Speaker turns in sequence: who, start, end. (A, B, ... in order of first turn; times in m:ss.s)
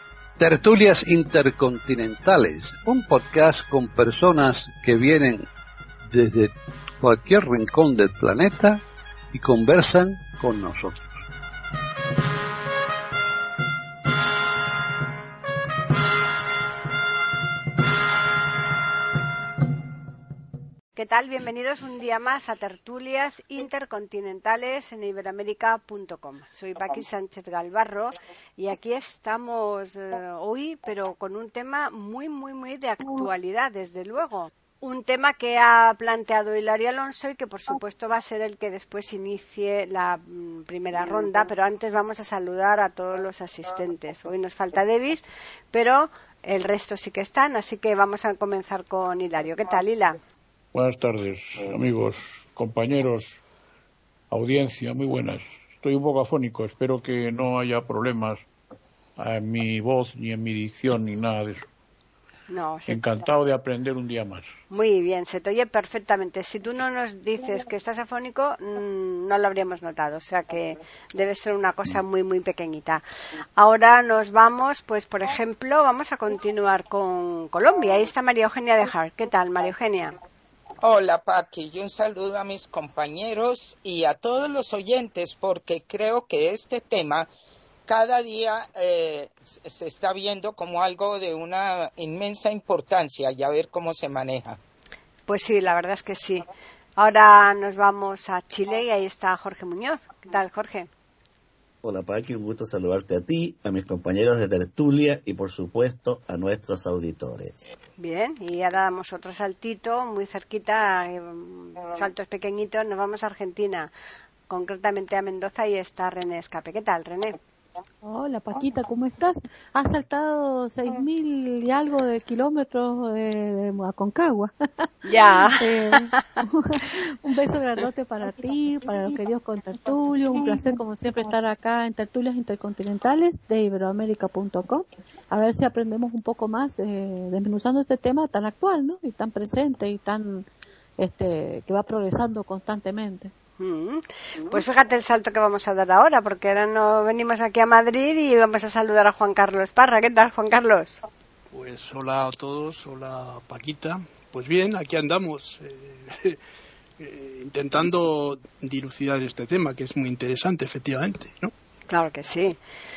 0:00.4-0:05.4 A
0:06.1-0:11.0 A
0:21.0-0:50.2 B
0:50.7-0:53.4 C
0:54.3-0:58.4 C
0:59.2-1:01.7 C
1:02.5-1:03.3 B
1:02.8-1:04.5 C
1:04.7-1:13.0 B
1:13.6-1:20.2 B
1:20.8-1:27.3 D
1:27.9-1:34.6 D
1:35.3-1:40.9 B
1:41.8-1:47.6 E
1:48.0-1:53.9 B
1:54.5-1:57.4 B
1:58.0-2:04.9 F
2:05.0-2:06.0 B
2:05.6-2:20.5 F
2:21.0-2:23.3 F
2:23.6-2:31.0 B
2:31.5-2:36.4 G
2:37.0-2:41.5 G
2:41.9-2:42.6 B